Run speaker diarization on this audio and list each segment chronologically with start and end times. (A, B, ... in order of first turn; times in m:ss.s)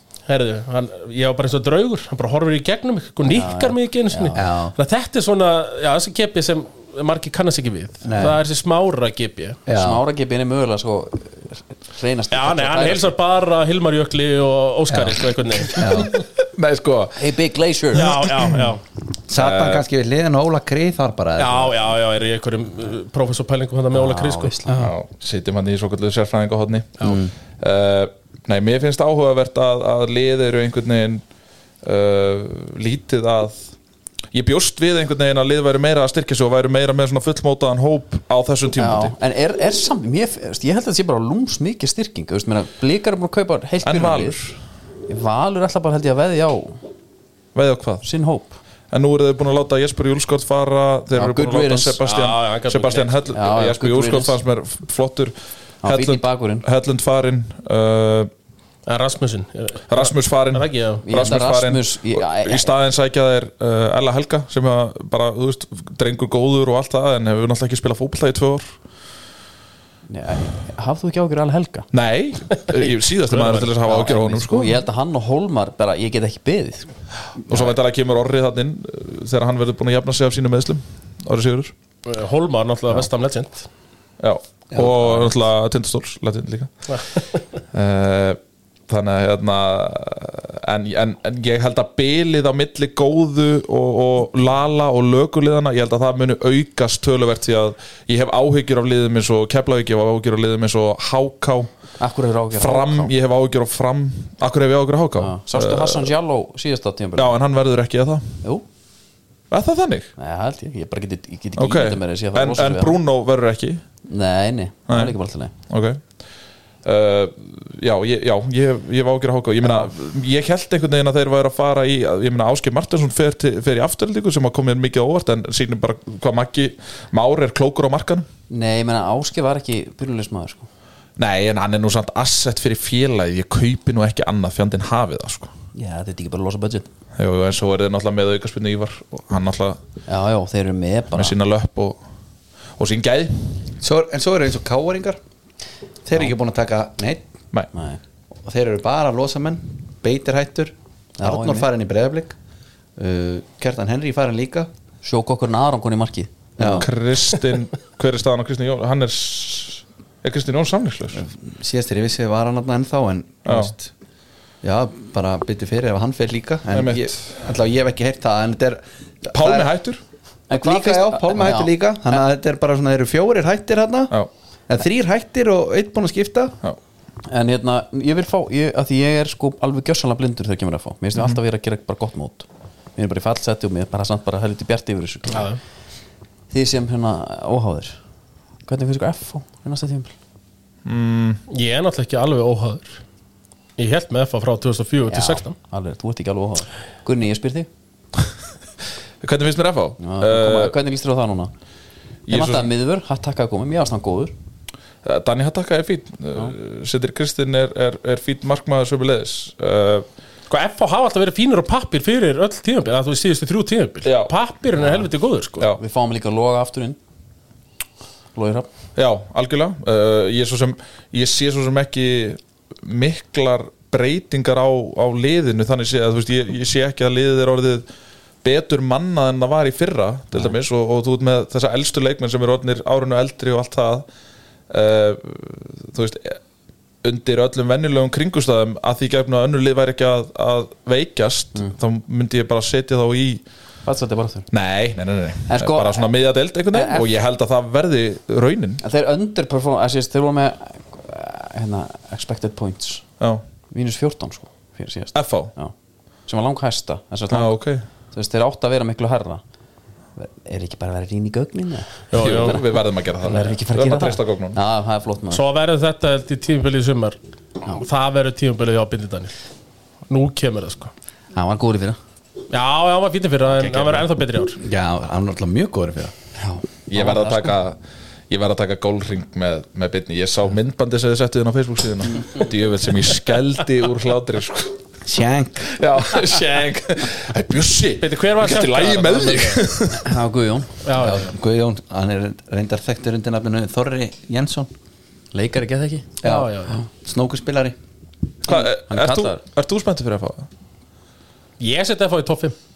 0:00.3-0:09.6 A
0:03.3-0:04.4 B
0:04.4-0:04.7 C
0:08.0-0:08.4 C
0:09.6-0:10.0 C
0:09.7-0:13.1 B
0:12.3-0:15.9 A
0:14.9-0:15.2 B
0:15.7-0:16.1 C
0:16.1-0:17.3 D
0:17.2-0:18.2 B
0:17.9-0:18.8 A
0:18.1-0:18.6 D
0:19.3-0:21.7 C
0:19.4-0:19.8 D
0:21.4-0:24.6 A
0:23.9-0:24.9 B
0:24.7-0:24.9 C
0:24.8-0:31.2 D
0:27.0-0:27.3 C
0:31.8-0:33.7 D
0:34.3-0:39.1 D
0:38.8-0:44.4 B
0:43.8-0:44.6 D
0:45.1-0:46.8 B
0:47.5-0:48.0 D
0:48.0-0:48.6 B
0:48.9-0:58.3 D
0:51.1-0:52.0 B
0:52.0-0:53.2 A
0:53.3-0:54.4 B
0:55.8-0:56.6 B
0:58.8-1:01.0 A
0:59.9-1:08.7 D
1:01.0-1:02.8 B
1:10.1-1:11.9 B
1:11.9-1:14.8 D
1:12.5-1:13.7 A
1:13.8-1:16.9 B
1:17.5-1:21.7 D
1:22.0-1:23.7 A
1:24.2-1:27.0 D
1:24.7-1:25.3 C
1:26.9-1:27.2 A
1:27.7-1:41.7 D
1:42.0-1:43.1 B
1:42.5-1:46.1 D
1:45.2-1:47.4 B
1:47.2-1:48.4 D
1:49.5-1:50.1 D
1:50.2-1:53.0 B
1:51.6-1:53.8 D
1:54.1-1:55.5 B
1:54.9-1:55.1 D
1:55.7-1:56.0 D
1:56.8-2:08.2 D
2:08.5-2:10.7 B
2:11.2-2:15.5 D
2:15.7-2:16.9 B
2:17.2-2:19.8 D
2:20.1-2:21.4 B
2:21.1-2:22.0 D
2:22.8-2:23.7 D
2:23.8-2:25.2 C
2:26.0-2:27.2 C
2:27.7-2:28.0 B
2:28.4-2:32.3 C
2:31.2-2:31.7 B
2:33.0-2:34.7 C
2:35.0-2:36.9 B
2:36.6-2:36.9 C
2:36.7-2:41.2 D
2:41.1-2:43.9 C
2:43.4-2:43.7 D
2:44.6-2:49.7 C
2:46.7-2:47.2 D
2:49.3-2:50.0 D
2:50.5-2:52.2 B
2:50.5-2:54.1 C
2:54.7-2:56.6 C
2:57.2-3:05.5 B
3:05.3-3:05.6 A
3:06.5-3:08.0 B
3:08.6-3:10.1 B
3:10.8-3:11.4 D
3:11.5-3:13.0 A
3:13.8-3:15.5 A
3:15.1-3:17.7 B
3:19.2-3:20.7 D
3:20.0-3:21.5 B
3:22.2-3:22.7 D
3:22.3-3:24.3 B
3:25.0-3:30.1 D
3:30.5-3:35.7 A
3:34.0-3:34.3 D
3:34.8-3:35.1 B
3:35.8-3:37.0 B
3:38.3-3:38.7 B
3:39.0-3:47.8 D
3:48.4-3:54.0 D
3:54.7-3:56.4 D
3:57.0-4:03.4 D
4:03.8-4:04.5 B
4:04.5-4:08.8 D
4:05.5-4:06.1 B
4:06.7-4:07.1 B
4:08.8-4:13.0 B
4:13.7-4:15.7 B
4:15.1-4:15.5 D
4:16.3-4:17.6 B
4:17.3-4:17.8 D
4:18.1-4:19.4 B
4:20.2-4:22.6 B
4:22.1-4:22.6 A
4:22.1-4:24.6 D
4:23.2-4:25.4 B
4:25.3-4:27.2 A
4:27.7-4:29.3 A
4:30.1-4:30.9 A
4:31.3-4:32.0 B
4:32.5-4:34.6 A
4:34.6-4:36.1 C
4:36.4-4:37.5 B
4:36.9-4:37.8 D
4:38.3-4:44.8 D
4:45.0-4:45.8 C
4:45.6-4:50.1 D
4:48.0-4:49.7 A
4:49.9-4:50.8 B
4:50.8-4:51.3 A
4:51.0-4:54.7 C
4:55.3-4:56.1 B
4:56.2-4:57.7 C
4:56.2-4:56.8 A
4:58.4-5:00.5 D
4:58.5-4:59.4 B
5:01.6-5:02.5 A